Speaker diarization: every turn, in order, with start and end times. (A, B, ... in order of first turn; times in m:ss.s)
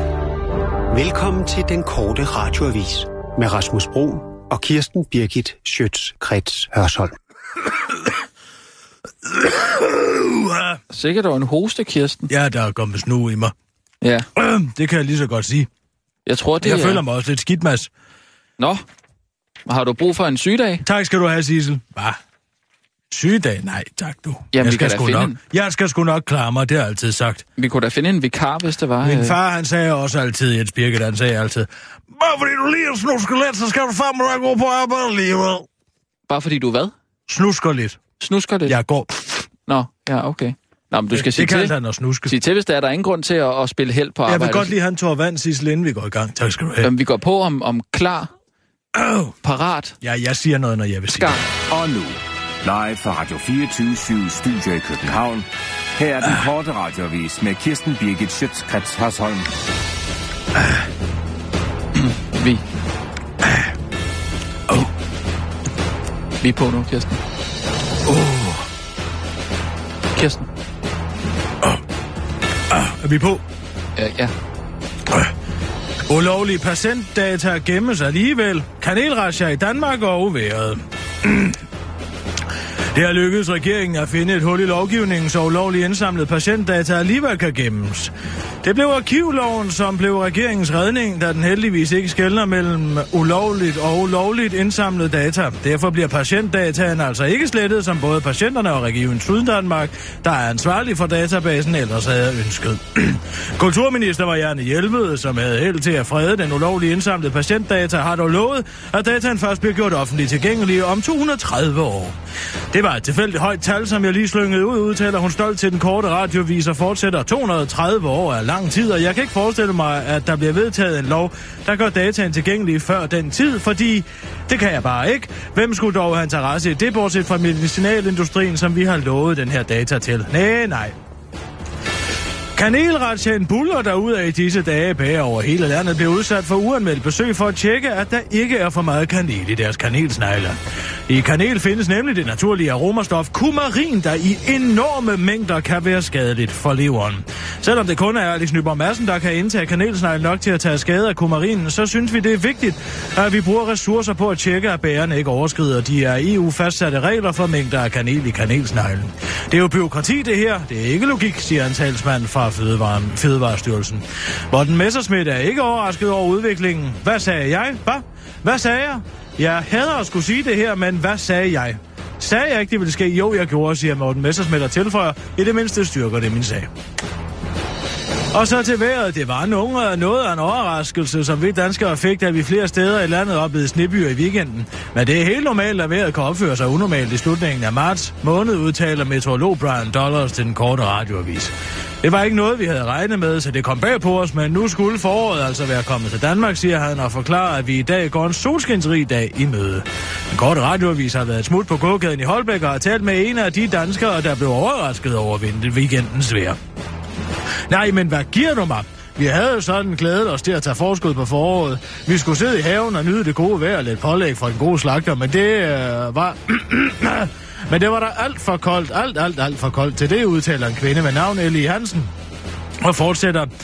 0:00.9-0:07.1 A
0:09.3-0:10.8 B
0:10.9-0:12.3 C
0:12.3-0:13.5 B
0:14.0-0:14.3 C
0:14.4-0:15.7 B
0:16.3-0:17.0 C
0:16.6-0:17.9 B
0:19.7-0:20.9 C
0:20.8-0:22.2 B
0:23.1-0:27.4 B
0:24.5-0:25.4 C
0:27.6-0:29.4 C
0:29.0-0:35.7 B
0:36.3-0:36.9 C
0:37.3-0:38.0 B
0:38.2-0:38.8 C
0:38.7-0:39.4 B
0:39.7-0:41.8 C
0:41.1-0:42.3 B
0:42.3-0:44.7 C
0:44.3-0:46.9 B
0:46.8-0:48.3 C
0:48.9-0:49.4 B
0:49.4-0:50.0 C
0:50.0-0:51.3 B
0:51.1-0:51.4 C
0:51.7-0:59.5 D
1:02.0-1:02.6 C
1:03.4-1:03.7 B
1:06.4-1:07.2 C
1:08.1-1:08.7 B
1:10.2-1:10.5 C
1:12.7-1:13.4 B
1:14.0-1:14.3 C
1:16.1-1:21.6 B
1:22.9-1:28.1 B
1:28.6-1:52.2 B
1:52.7-2:11.0 B
2:12.6-2:56.7 B
2:58.3-3:26.6 B
3:27.7-3:42.1 B
3:42.8-3:43.5 B